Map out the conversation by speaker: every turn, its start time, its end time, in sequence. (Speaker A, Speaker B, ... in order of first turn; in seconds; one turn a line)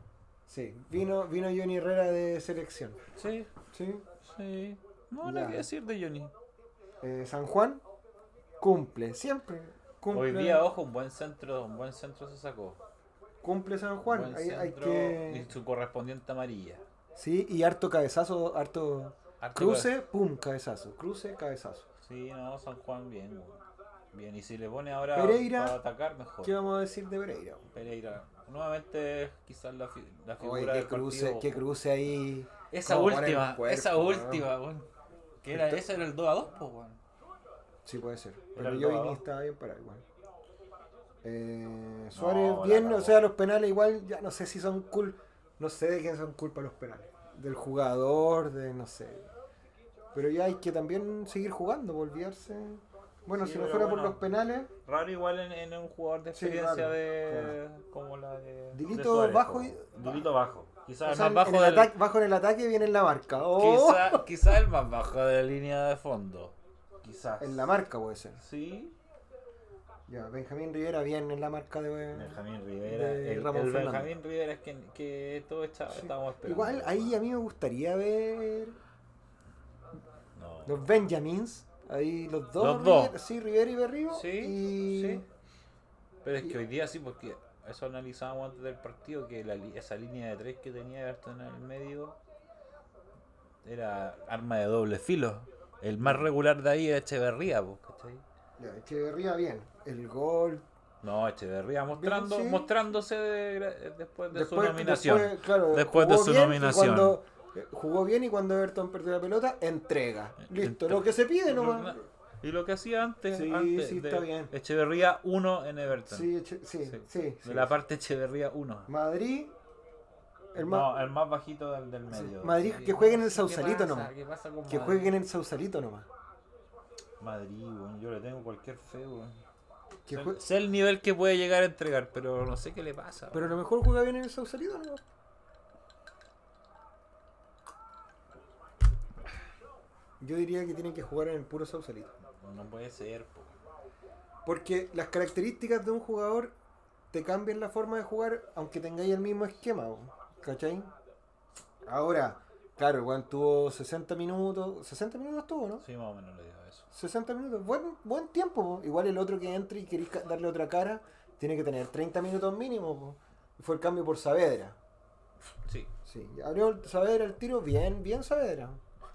Speaker A: 0.5-3.0
Speaker B: 3.2-3.5
Speaker A: 3.7-4.0
Speaker B: 4.2-6.3
Speaker A: 5.2-5.7
Speaker A: 7.0-7.8
Speaker A: 8.6-10.7
Speaker B: 10.1-12.8
Speaker A: 13.4-15.5
Speaker B: 14.0-16.8
Speaker A: 17.1-21.9
Speaker B: 19.4-19.9
Speaker B: 22.0-26.6
Speaker A: 25.1-25.8
Speaker A: 26.4-27.7
Speaker B: 27.7-31.7
Speaker A: 30.4-34.5
Speaker B: 32.7-34.9
Speaker B: 35.4-37.0
Speaker A: 35.5-35.8
Speaker A: 37.9-40.0
Speaker B: 38.6-39.2
Speaker A: 41.2-49.3
Speaker B: 42.1-43.3
Speaker A: 50.1-54.7
Speaker B: 53.3-54.2
Speaker B: 54.9-62.0
Speaker A: 56.3-57.6
Speaker A: 58.7-60.3
Speaker A: 61.0-64.2
Speaker B: 63.5-67.7
Speaker A: 67.4-68.4
Speaker B: 68.4-69.0
Speaker A: 70.1-74.1
Speaker B: 72.1-77.2
Speaker A: 75.9-78.8
Speaker B: 80.4-80.8
Speaker A: 80.7-85.2
Speaker B: 82.6-83.2
Speaker B: 84.1-85.2
Speaker B: 86.2-92.2
Speaker B: 93.6-98.2
Speaker A: 96.0-96.3
Speaker A: 98.6-100.7
Speaker B: 101.0-107.2
Speaker A: 101.9-102.7
Speaker A: 104.3-112.0
Speaker B: 110.4-116.3
Speaker A: 113.3-114.5
Speaker A: 116.1-117.8
Speaker B: 116.8-118.9
Speaker A: 118.9-119.5
Speaker A: 120.5-120.9
Speaker B: 120.6-125.2
Speaker A: 122.1-124.1
Speaker A: 124.7-126.1
Speaker B: 127.2-129.4
Speaker A: 130.1-130.4
Speaker B: 130.1-133.6
Speaker A: 133.3-135.0
Speaker A: 140.2-142.2
Speaker B: 142.4-143.5
Speaker A: 144.4-146.5
Speaker A: 147.1-150.9
Speaker A: 151.9-155.9
Speaker B: 155.8-156.9
Speaker A: 156.9-164.8
Speaker B: 165.7-165.9
Speaker A: 166.1-168.8